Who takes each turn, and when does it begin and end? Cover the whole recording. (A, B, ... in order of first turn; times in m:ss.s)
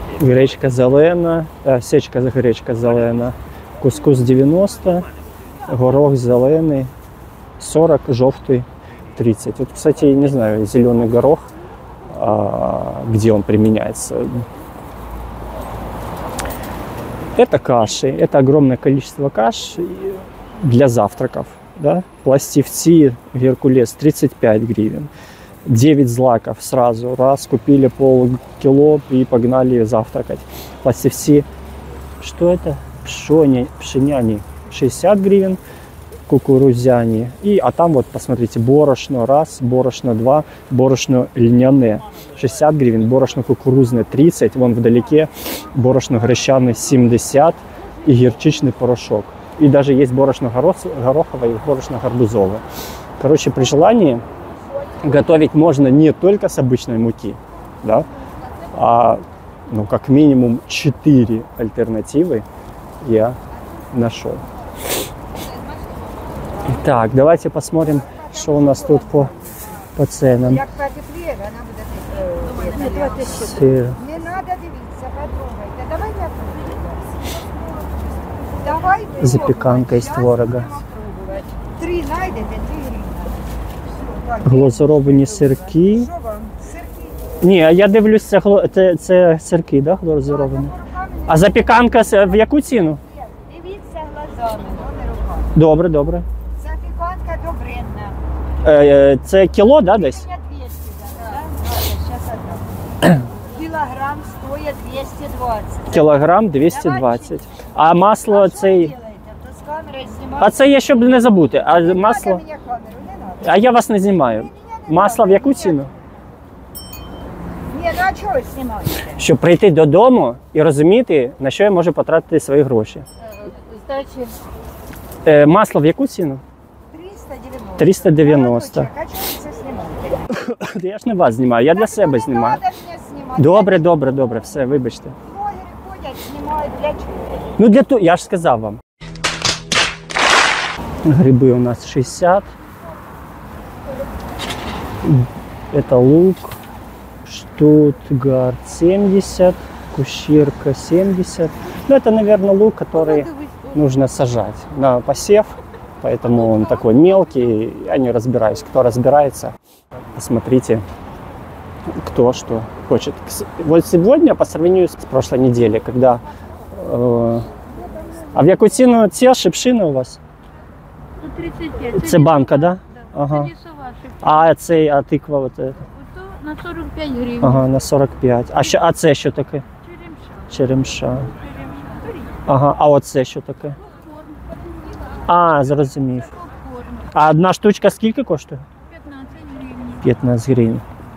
0:00.2-0:05.1 A
0:05.7-0:06.9 A
0:07.6-0:11.5 A
0:12.1-0:14.4 A
0:17.4-0:25.1 A
0:25.7-0:31.5 A
0:32.2-0:35.6 A
0:36.3-0:52.6 A
0:53.2-0:54.2 A
0:55.0-0:58.1 A
0:58.7-1:02.4 A
1:03.0-1:03.4 A
1:03.9-1:04.4 A
1:05.4-1:06.1 B
1:06.7-1:09.3 A
1:08.0-1:09.4 B
1:10.0-1:10.6 A
1:10.4-1:17.0 B
1:12.5-1:13.6 C
1:13.3-1:14.0 A
1:18.6-1:23.4 B
1:19.2-1:20.8 A
1:24.0-1:27.3 B
1:24.4-1:26.1 A
1:27.4-1:30.7 A
1:30.2-1:35.6 B
1:31.3-1:33.0 A
1:35.5-1:36.3 A
1:36.6-1:38.2 B
1:38.6-1:40.2 A
1:39.8-1:47.4 B
1:45.9-1:48.9 A
1:48.2-1:51.1 B
1:50.4-1:52.4 A
1:51.7-1:53.7 B
1:53.4-1:55.9 A
1:54.3-1:56.0 B
1:57.7-1:59.2 B
1:59.2-2:03.0 A
2:03.5-2:04.3 B
2:05.2-2:06.4 A
2:06.9-2:10.3 B
2:07.8-2:08.9 A
2:10.4-2:12.6 A
2:11.7-2:14.0 B
2:13.4-2:15.2 A
2:15.2-2:17.2 B
2:17.6-2:18.8 A
2:21.0-2:22.5 A
2:25.0-2:26.6 A
2:27.2-2:39.6 A
2:33.1-2:33.7 C
2:40.2-2:40.8 A
2:42.0-2:47.5 A
2:48.3-2:50.2 A
2:51.2-2:54.5 C
2:51.9-2:53.5 A
2:54.2-2:55.8 A
2:56.0-2:57.6 C
2:57.4-2:59.7 A
2:59.8-3:00.5 C
3:00.5-3:01.3 A
3:01.4-3:02.4 C
3:02.5-3:03.8 A
3:05.3-3:06.4 A
3:06.4-3:07.1 C
3:07.1-3:08.6 A
3:08.9-3:10.0 C
3:10.0-3:10.8 A